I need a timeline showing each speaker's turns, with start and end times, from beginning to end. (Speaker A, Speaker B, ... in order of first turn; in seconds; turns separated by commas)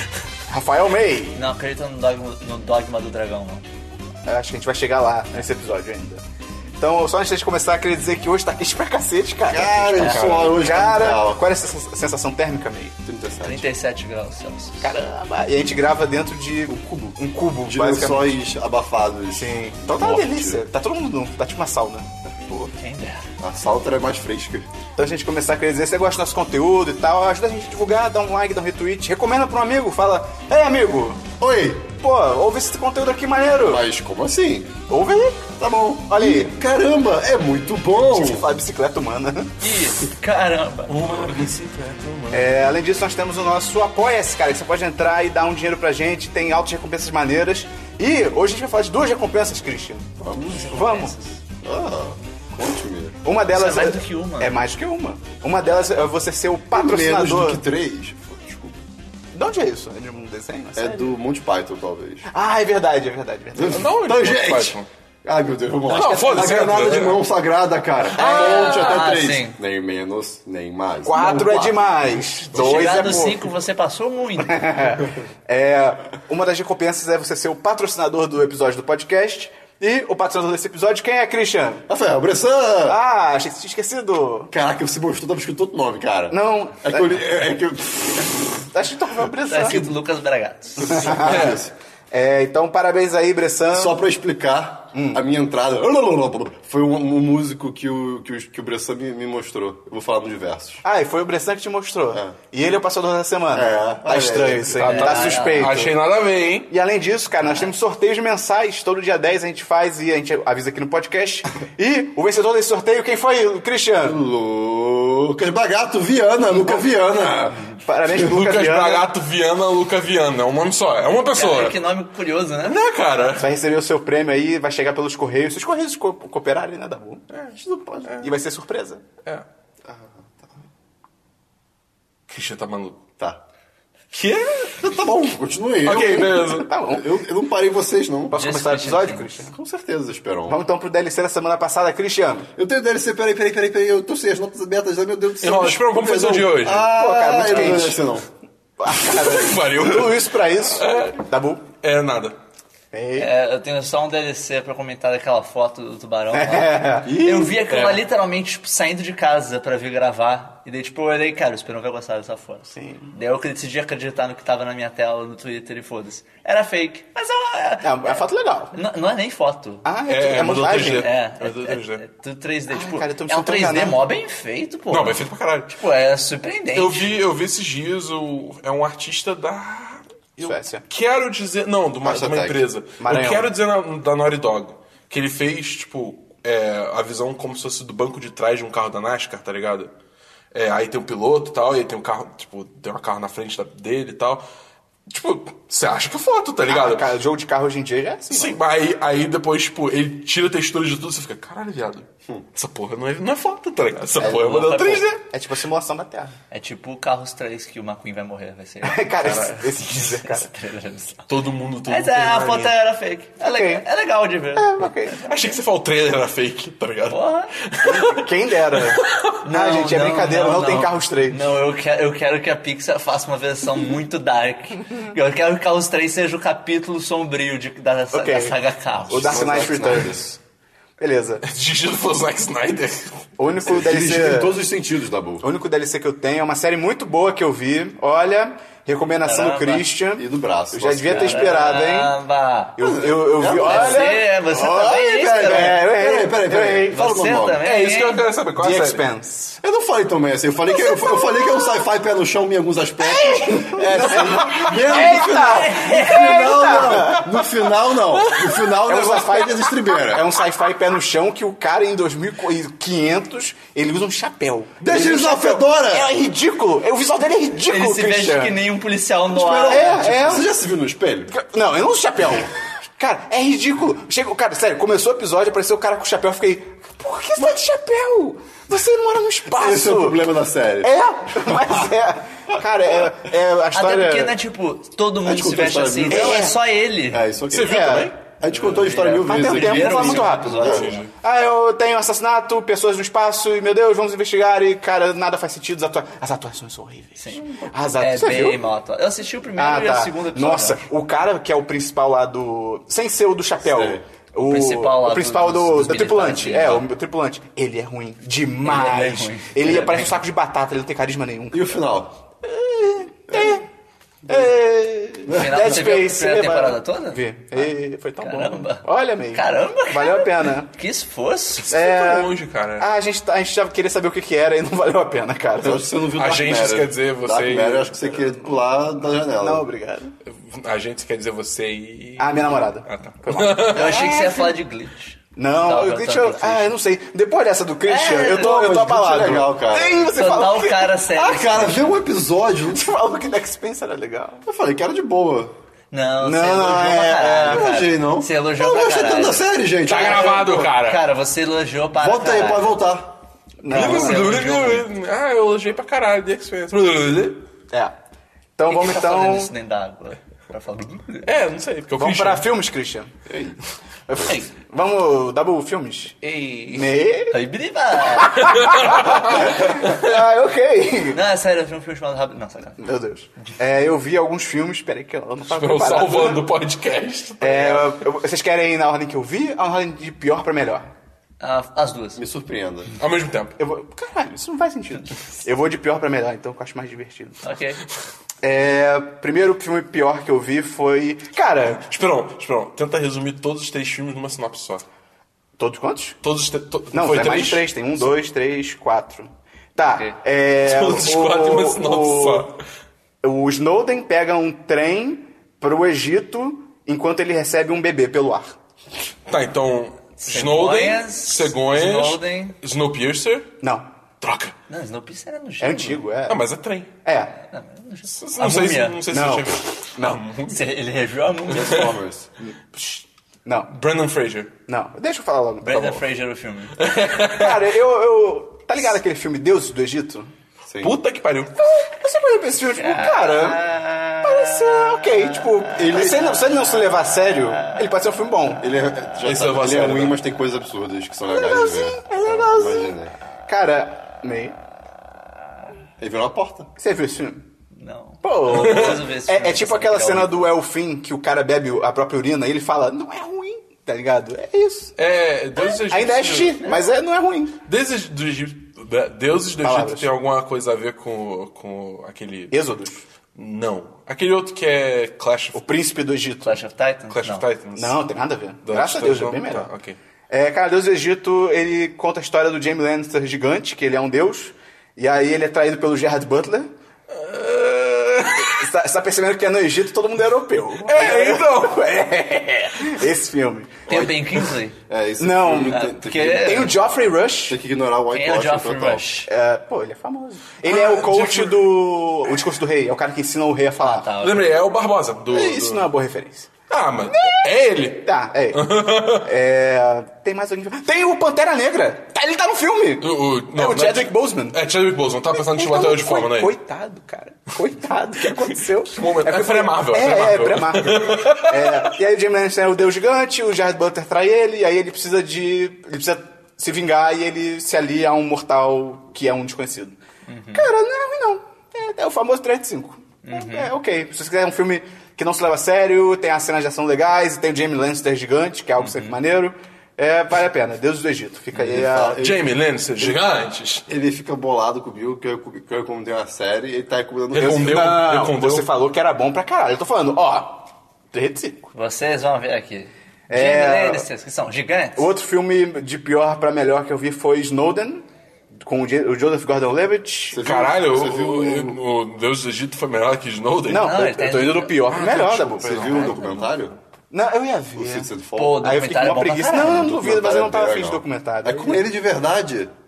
Speaker A: 0.5-1.4, Speaker B: 1.3-3.6, Speaker A: 4.2-6.2, Speaker A: 6.8-13.0, Speaker C: 9.5-11.4, Speaker B: 10.0-10.6, Speaker C: 13.1-13.7, Speaker B: 13.4-15.0, Speaker A: 14.8-18.4, Speaker C: 17.7-20.6, Speaker A: 19.3-22.1, Speaker C: 22.3-22.7, Speaker B: 22.8-23.3, Speaker C: 23.4-24.7, Speaker A: 25.0-31.3, Speaker C: 31.4-31.9, Speaker A: 31.9-33.9, Speaker C: 33.6-34.8, Speaker A: 34.9-36.5, Speaker C: 35.6-38.4, Speaker A: 38.0-39.5, Speaker B: 39.6-41.1, Speaker D: 40.9-42.5, Speaker A: 42.3-50.1, Speaker C: 50.2-51.0, Speaker B: 50.4-51.4, Speaker A: 50.7-51.1, Speaker C: 51.6-53.2, Speaker A: 53.2-57.6, Speaker B: 53.5-54.6, Speaker C: 56.7-58.8, Speaker A: 59.3-61.2, Speaker C: 60.8-62.3, Speaker A: 62.3-64.0, Speaker C: 63.5-71.9, Speaker D: 63.7-64.9, Speaker D: 65.9-67.2, Speaker A: 65.9-66.6, Speaker A: 68.2-69.0, Speaker B: 68.2-69.6, Speaker A: 71.0-73.5, Speaker C: 72.5-73.4, Speaker B: 72.5-74.9, Speaker A: 74.4-81.9, Speaker C: 81.9-83.0, Speaker A: 82.9-84.5, Speaker C: 84.5-88.6, Speaker A: 86.3-87.2, Speaker A: 88.7-90.0, Speaker B: 89.5-91.2, Speaker C: 90.8-91.7, Speaker A: 90.8-94.0, Speaker D: 91.2-91.6, Speaker C: 93.7-100.8, Speaker A: 94.9-95.2, Speaker A: 100.8-106.0, Speaker C: 103.5-105.2, Speaker D: 104.8-106.7, Speaker B: 104.8-105.8, Speaker A: 106.7-114.2, Speaker C: 114.0-118.2, Speaker A: 116.5-116.9, Speaker A: 117.8-119.1, Speaker D: 118.2-121.8, Speaker B: 121.3-122.8, Speaker D: 122.6-123.5, Speaker A: 123.4-127.2, Speaker D: 127.3-128.3, Speaker C: 127.6-128.2, Speaker A: 128.2-129.0, Speaker C: 129.8-130.6, Speaker D: 132.3-133.0, Speaker D: 134.1-134.8, Speaker C: 134.8-138.4, Speaker D: 135.8-136.7, Speaker A: 136.5-137.2, Speaker A: 138.3-139.6, Speaker B: 138.3-139.4, Speaker C: 139.5-140.6, Speaker A: 140.5-142.5, Speaker C: 142.6-148.3, Speaker D: 145.4-146.9, Speaker A: 146.9-148.0, Speaker A: 148.8-151.7, Speaker D: 148.9-151.2, Speaker D: 151.8-152.4, Speaker A: 152.9-153.3, Speaker B: 153.2-169.9, Speaker A: 156.3-157.2, Speaker C: 157.1-157.6, Speaker D: 157.7-158.0, Speaker A: 162.8-163.1, Speaker A: 167.8-168.8, Speaker A: 169.8-171.1, Speaker D: 170.1-172.0, Speaker B: 170.9-177.1, Speaker A: 172.7-174.0, Speaker D: 174.9-175.7, Speaker D: 176.7-189.9, Speaker A: 180.4-180.8, Speaker C: 182.0-182.7, Speaker A: 183.0-183.5, Speaker D: 190.5-194.4, Speaker D: 195.1-197.1, Speaker A: 196.7-198.6, Speaker D: 198.3-205.2, Speaker A: 204.2-206.3, Speaker B: 204.4-205.1, Speaker B: 206.5-211.3, Speaker A: 208.8-210.5, Speaker D: 209.2-209.7, Speaker D: 211.3-212.7, Speaker B: 211.9-215.1, Speaker A: 213.4-213.9, Speaker A: 214.6-215.6, Speaker D: 215.2-219.3, Speaker B: 217.1-217.5, Speaker A: 217.8-221.4, Speaker B: 219.4-229.9, Speaker A: 228.1-228.6, Speaker A: 229.1-230.4, Speaker C: 229.1-230.3, Speaker A: 231.0-231.4, Speaker D: 231.4-233.3, Speaker A: 233.4-234.6, Speaker C: 233.7-235.4, Speaker A: 235.4-242.1, Speaker B: 239.2-239.9, Speaker C: 240.2-241.7, Speaker B: 241.1-242.8, Speaker A: 242.8-246.9, Speaker C: 242.8-244.2, Speaker B: 243.5-245.8, Speaker C: 245.0-247.6, Speaker B: 246.8-248.2, Speaker D: 247.6-249.0, Speaker A: 248.6-249.6, Speaker C: 249.6-260.2, Speaker A: 253.2-257.3, Speaker B: 254.8-256.9, Speaker D: 258.2-258.7, Speaker A: 258.8-268.6, Speaker C: 264.8-266.1, Speaker B: 267.7-270.4, Speaker C: 269.3-271.3, Speaker A: 269.7-270.5, Speaker A: 271.3-284.4, Speaker C: 279.5-280.9, Speaker B: 283.7-287.2, Speaker C: 285.2-290.9, Speaker A: 286.1-286.6, Speaker D: 287.5-288.2, Speaker A: 287.6-288.1, Speaker B: 288.5-291.0, Speaker A: 289.2-298.6, Speaker D: 290.4-291.1, Speaker B: 297.2-300.8, Speaker A: 299.6-311.8, Speaker C: 303.6-304.0, Speaker B: 304.4-306.9, Speaker B: 308.6-310.2, Speaker C: 311.5-312.2, Speaker A: 312.4-313.6, Speaker A: 314.3-320.7, Speaker B: 315.3-317.7, Speaker B: 318.2-321.7, Speaker D: 321.6-322.9, Speaker A: 321.7-325.9, Speaker C: 325.6-329.7, Speaker D: 326.2-328.4, Speaker A: 329.3-330.1, Speaker D: 330.3-334.1, Speaker A: 332.2-334.6, Speaker B: 333.7-336.8, Speaker A: 335.4-341.0, Speaker B: 337.9-338.7, Speaker C: 338.2-340.1, Speaker B: 340.1-342.0, Speaker C: 341.1-342.9, Speaker A: 342.6-344.5, Speaker C: 344.4-345.5, Speaker B: 345.9-352.8, Speaker A: 346.2-347.8, Speaker C: 347.4-350.7, Speaker D: 349.8-351.0, Speaker C: 351.9-353.2, Speaker A: 353.6-354.4, Speaker B: 353.7-354.9, Speaker D: 353.7-357.4, Speaker A: 358.6-359.5, Speaker B: 358.7-361.3, Speaker D: 361.2-362.5, Speaker A: 362.0-363.1, Speaker C: 363.3-363.6, Speaker A: 364.1-366.2, Speaker D: 366.2-366.9, Speaker A: 366.7-367.4, Speaker B: 367.3-369.3, Speaker A: 368.1-371.2, Speaker D: 368.4-370.2, Speaker B: 371.1-372.8, Speaker A: 372.8-376.4, Speaker D: 375.5-378.0, Speaker A: 377.4-380.9, Speaker B: 381.4-382.2, Speaker C: 382.2-382.9, Speaker D: 383.0-383.6, Speaker A: 383.6-387.4, Speaker B: 387.4-387.8, Speaker A: 388.4-391.9, Speaker D: 391.7-394.8, Speaker A: 395.6-396.2, Speaker D: 396.2-397.7, Speaker A: 396.9-402.5, Speaker D: 400.6-402.6, Speaker A: 403.2-408.6, Speaker D: 409.3-413.5, Speaker B: 410.2-412.6, Speaker A: 413.6-413.9, Speaker D: 414.2-414.5, Speaker B: 414.7-416.0, Speaker A: 415.6-416.4, Speaker D: 416.3-416.9, Speaker A: 417.1-417.3, Speaker B: 417.3-419.0, Speaker D: 418.2-420.6, Speaker A: 419.1-420.2, Speaker B: 420.5-421.9, Speaker C: 421.5-422.3, Speaker D: 421.5-421.9, Speaker A: 422.4-423.7, Speaker D: 423.7-424.5, Speaker A: 424.7-426.1, Speaker B: 425.6-426.9, Speaker D: 426.8-427.6, Speaker A: 427.3-430.3, Speaker C: 430.7-431.0, Speaker D: 430.8-431.6, Speaker A: 431.6-433.6, Speaker B: 432.7-436.1, Speaker A: 434.2-438.7, Speaker C: 435.7-436.5, Speaker C: 438.6-443.1, Speaker D: 439.2-440.2, Speaker A: 441.2-443.0, Speaker A: 443.5-444.6, Speaker C: 446.0-446.7, Speaker A: 446.8-447.5, Speaker B: 447.7-450.5, Speaker A: 448.2-454.9, Speaker D: 448.5-449.0, Speaker D: 455.0-456.6, Speaker A: 455.6-457.6, Speaker D: 457.7-462.6, Speaker A: 459.6-460.1, Speaker A: 462.5-463.0, Speaker D: 463.4-465.6, Speaker A: 465.5-466.6, Speaker B: 466.4-467.5, Speaker D: 467.1-468.0, Speaker A: 467.8-469.7, Speaker D: 468.7-470.0, Speaker A: 470.3-476.7, Speaker D: 477.1-478.6, Speaker A: 478.4-483.9, Speaker D: 480.8-481.8, Speaker B: 483.9-484.8, Speaker C: 483.9-486.7, Speaker A: 485.2-487.6, Speaker B: 485.7-486.8, Speaker C: 487.5-489.1, Speaker B: 488.1-489.3, Speaker A: 489.3-494.1, Speaker D: 490.6-491.6, Speaker B: 493.8-494.6, Speaker D: 494.2-495.9, Speaker A: 495.3-496.5, Speaker D: 496.7-499.3, Speaker A: 497.1-497.5, Speaker A: 498.0-504.6, Speaker D: 503.0-506.6, Speaker A: 505.3-520.0, Speaker D: 508.3-511.9, Speaker B: 520.3-520.7, Speaker A: 520.5-532.3, Speaker B: 523.2-523.7, Speaker B: 528.8-529.2, Speaker C: 531.5-532.4, Speaker D: 532.2-533.9, Speaker C: 533.9-537.8, Speaker D: 537.3-538.7, Speaker A: 537.4-541.7, Speaker B: 541.7-545.1, Speaker A: 543.3-544.1, Speaker A: 545.0-550.5, Speaker C: 550.3-551.8, Speaker D: 550.4-553.9, Speaker A: 553.7-555.8, Speaker B: 553.7-554.8, Speaker D: 554.9-556.5, Speaker C: 555.6-556.8, Speaker B: 555.9-556.3, Speaker A: 557.1-561.8, Speaker C: 557.8-558.7, Speaker B: 558.4-560.0, Speaker C: 559.6-562.7